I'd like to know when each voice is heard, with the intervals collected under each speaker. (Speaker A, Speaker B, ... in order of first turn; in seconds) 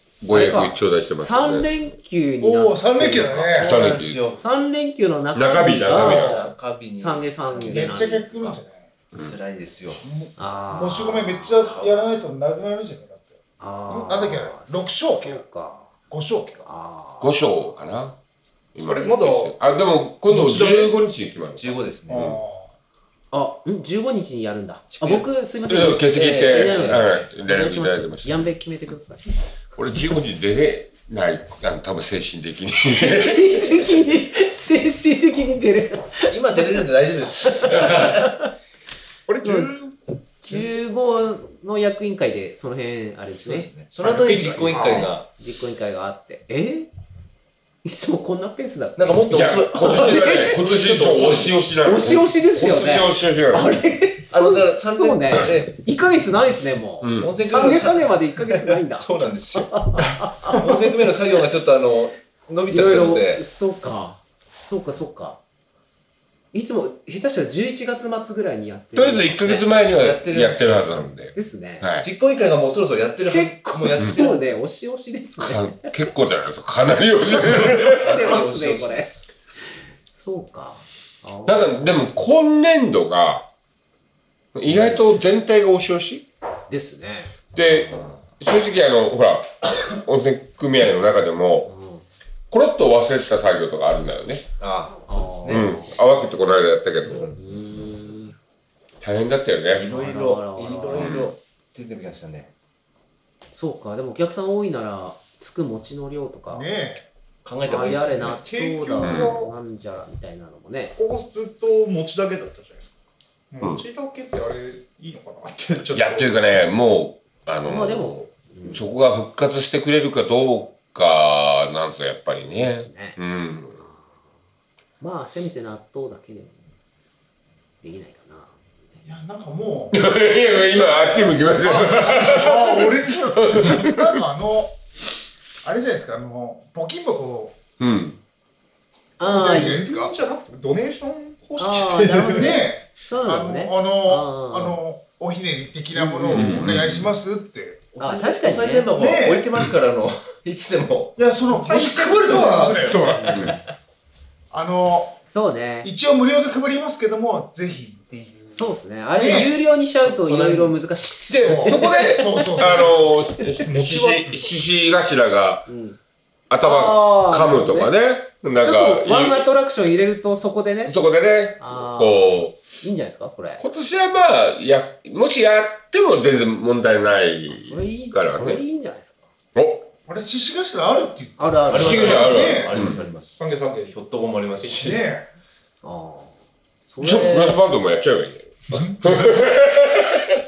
Speaker A: 0.2-1.7, 3.6-4.2, 5.3-6.4, 17.2-18.2, 18.7-22.4, 25.6-28.5, 29.8-33.6, 49.3-53.8, 55.3-55.6, 57.0-57.4, 68.9-72.1, 75.4-78.2, 81.5-83.5, 84.5-86.3, 87.5-91.7, 92.5-94.5, 95.5-97.3, 99.0-99.9, 100.9-101.3, 109.0-109.4, 115.9-123.8, 129.9-134.1, 137.8-138.2, 146.2-147.1, 161.3-165.7, 166.5-169.5, 170.8-172.6, 173.6-178.6, 179.5-179.9, 181.7-183.0, 187.0-190.4
Speaker B: 0.3-8.6, 10.4-11.7, 13.6-15.9, 16.6-17.4, 23.3-29.2, 32.9-36.6, 37.4-38.5, 39.4-39.7, 40.4-46.9, 47.8-60.7, 62.7-65.4, 66.5-69.7, 71.3-71.9, 73.3-75.9, 77.4-79.1, 80.1-82.0, 86.7-87.3, 91.7-92.0, 95.1-95.9, 97.3-98.3, 99.9-101.2, 103.5-106.7, 107.6-110.9, 117.6-118.8, 122.4-123.2, 123.8-124.0, 125.0-126.7, 127.8-129.0, 139.2-139.9, 141.6-144.8, 148.0-148.9, 155.3-155.9, 158.5-162.9, 165.7-166.0, 166.6-167.9, 168.6-171.0, 171.6-173.6, 177.5-179.2, 181.4-183.1, 185.8-187.6
Speaker C: 2.4-3.8, 5.9-6.4, 7.6-8.9, 10.0-13.4, 13.9-15.4, 16.1-16.6, 22.1-22.7, 106.5-107.0, 129.0-134.8, 135.6-137.6, 139.2-140.1, 142.4-147.8, 148.9-149.5, 151.2-153.2, 154.5-155.2, 155.8-159.5, 161.3-163.3, 180.1-182.7, 184.8-185.3
Speaker D: 3.6-4.4, 5.9-8.0, 9.1-10.0, 11.6-12.1, 21.6-22.4, 24.9-25.2, 25.9-27.2, 36.3-38.3, 43.4-45.2, 49.0-51.6, 54.3-55.7, 57.2-63.4, 69.9-71.1, 72.0-74.6, 77.5-79.2, 94.6-95.7, 97.1-97.4, 99.7-102.5, 107.4-108.4, 146.3-146.7, 147.9-151.2, 160.1-160.8, 181.7-185.0
Speaker E: 18.8-19.6, 20.3-21.0, 39.3-40.7, 44.0-45.1, 108.1-109.5, 110.9-112.9, 113.5-116.4, 139.4-142.6, 151.5-153.6, 163.7-164.4, 183.4-184.0, 184.6-185.0